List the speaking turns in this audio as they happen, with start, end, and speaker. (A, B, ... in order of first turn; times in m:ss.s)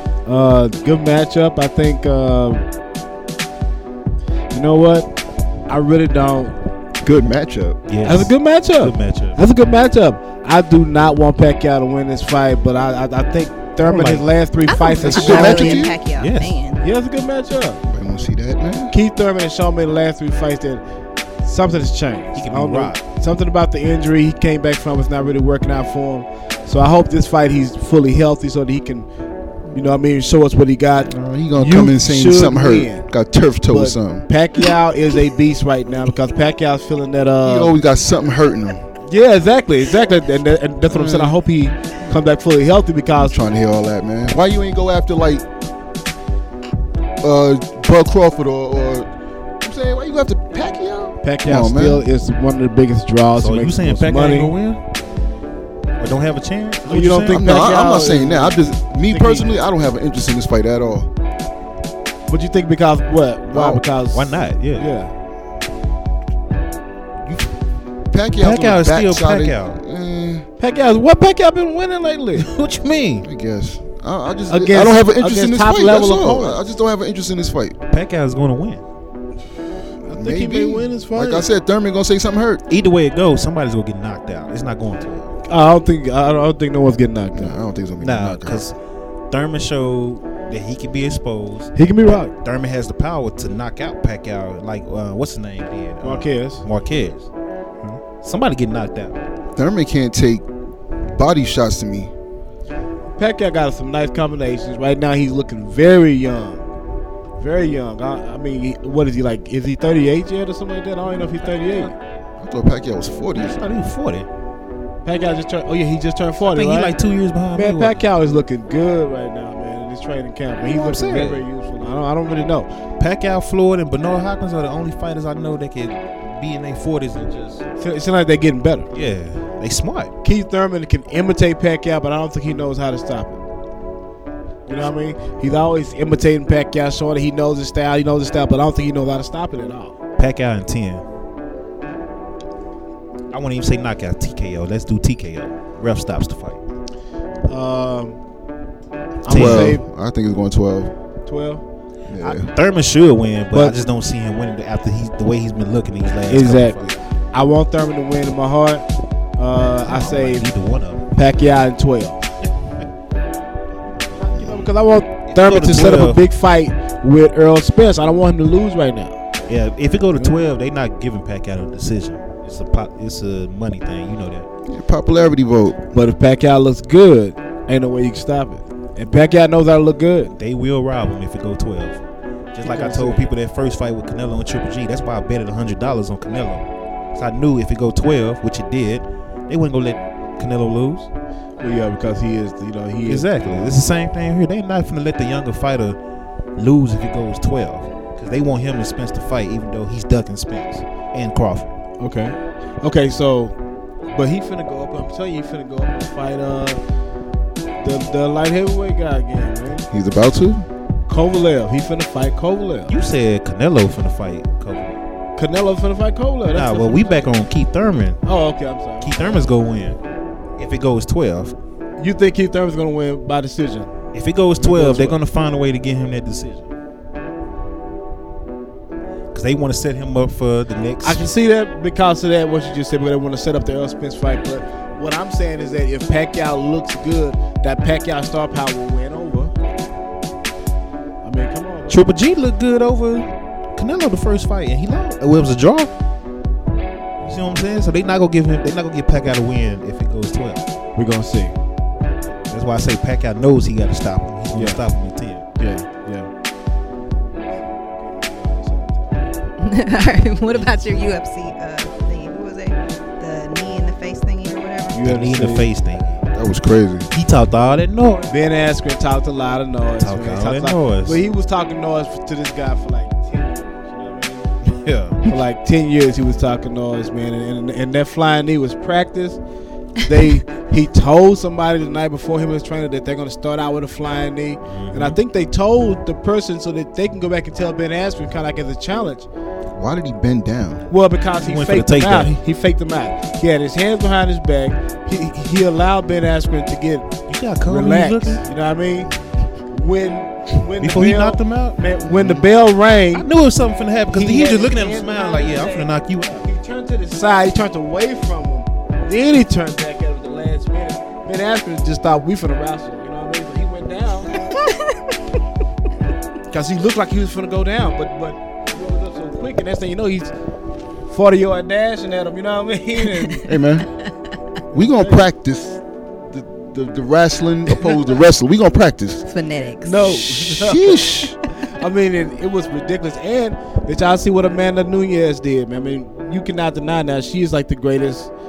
0:00.2-0:02.6 A
0:04.5-0:05.1 A
0:05.7-0:06.6 A
0:07.0-0:07.8 B
0:07.9-0:09.4 C
0:08.0-0:15.9 A
0:13.8-0:14.2 C
0:14.6-0:16.8 D
0:15.0-0:16.0 B
0:16.2-0:16.6 C
0:16.8-0:17.8 A
0:17.8-0:19.0 B
0:18.9-0:20.8 A
0:21.4-0:29.1 A
0:22.4-0:23.0 C
0:29.7-0:33.1 A
0:31.1-0:34.2 B
0:33.7-0:37.7 A
0:37.4-0:38.9 B
0:39.1-0:43.4 A
0:40.9-0:41.4 B
0:43.1-0:45.4 B
0:47.2-0:49.1 B
0:49.6-0:52.1 B
0:51.2-0:54.5 A
0:53.4-0:54.8 C
0:56.0-0:57.6 C
0:56.9-0:59.5 A
0:57.3-1:01.1 B
1:02.3-1:05.1 A
1:03.5-1:04.9 C
1:08.1-1:10.5 B
1:08.4-1:09.8 C
1:10.6-1:12.5 A
1:12.4-1:13.3 C
1:13.2-1:17.8 B
1:14.5-1:16.6 A
1:17.9-1:18.8 C
1:20.0-1:22.6 B
1:20.1-1:21.5 A
1:22.7-1:25.3 C
1:25.5-1:27.6 A
1:27.3-1:28.6 B
1:28.0-1:28.8 C
1:29.3-1:31.8 C
1:31.8-1:32.3 A
1:32.3-1:37.3 C
1:36.0-1:36.6 A
1:38.1-1:39.2 C
1:39.6-1:40.4 B
1:41.1-1:42.1 B
1:43.2-1:46.6 A
1:47.4-1:51.9 A
1:51.4-1:51.9 C
1:52.4-1:53.7 B
1:53.4-1:54.3 C
1:55.0-1:56.9 A
1:56.4-1:58.0 C
1:57.6-2:02.7 A
2:00.6-2:01.4 C
2:03.0-2:07.6 C
2:07.8-2:08.9 A
2:08.9-2:10.1 C
2:10.2-2:13.4 A
2:14.6-2:20.0 A
2:20.2-2:21.0 C
2:23.3-2:26.6 C
2:27.5-2:28.2 A
2:29.2-2:29.8 A
2:29.3-2:29.8 C
2:29.3-2:30.9 B
2:31.3-2:31.6 A
2:32.1-2:32.5 B
2:32.2-2:37.0 C
2:36.3-2:36.8 A
2:37.3-2:38.9 A
2:39.4-2:40.5 A
2:39.8-2:41.6 C
2:41.1-2:42.2 A
2:44.1-2:49.2 A
2:45.3-2:46.2 C
2:49.5-2:54.5 C
2:54.6-2:55.8 B
2:55.9-3:00.3 A
3:00.4-3:02.0 C
3:02.5-3:11.1 C
3:02.6-3:03.3 A
3:11.6-3:13.8 A
3:13.1-3:16.0 C
3:16.6-3:21.7 C
3:22.0-3:23.6 A
3:24.1-3:26.8 A
3:27.8-3:29.9 A
3:29.9-3:30.7 B
3:31.1-3:32.9 A
3:32.9-3:35.0 C
3:35.4-3:37.3 A
3:36.5-3:38.2 C
3:38.2-3:39.5 A
3:39.0-3:40.0 C
3:40.6-3:41.6 C
3:42.0-3:43.9 A
3:44.1-3:46.7 C
3:44.6-3:45.2 A
3:49.3-3:51.3 C
3:51.0-3:59.5 A
4:01.2-4:02.0 A
4:01.9-4:05.9 C
4:07.2-4:10.6 C
4:11.0-4:11.6 A
4:12.4-4:15.4 C
4:14.5-4:14.8 A
4:15.6-4:16.3 A
4:17.2-4:19.3 A
4:19.6-4:25.0 D
4:24.9-4:25.8 A
4:25.0-4:26.2 C
4:26.2-4:27.1 B
4:27.1-4:28.3 C
4:28.3-4:34.5 A
4:30.0-4:31.2 C
4:34.6-4:35.3 C
4:35.3-4:39.4 A
4:40.0-4:49.3 A
4:44.6-4:45.2 C
4:49.8-4:50.9 B
4:50.9-4:59.1 A
4:51.4-4:52.4 C
4:57.3-4:58.4 C
4:59.7-5:03.3 A
5:00.8-5:01.8 C
5:02.0-5:02.5 B
5:03.1-5:06.4 C
5:04.1-5:14.4 A
5:14.5-5:15.0 D
5:16.5-5:20.3 A
5:21.1-5:23.6 A
5:23.4-5:23.9 B
5:24.7-5:29.3 B
5:24.7-5:25.2 A
5:29.3-5:30.2 D
5:29.8-5:38.3 A
5:30.0-5:31.4 B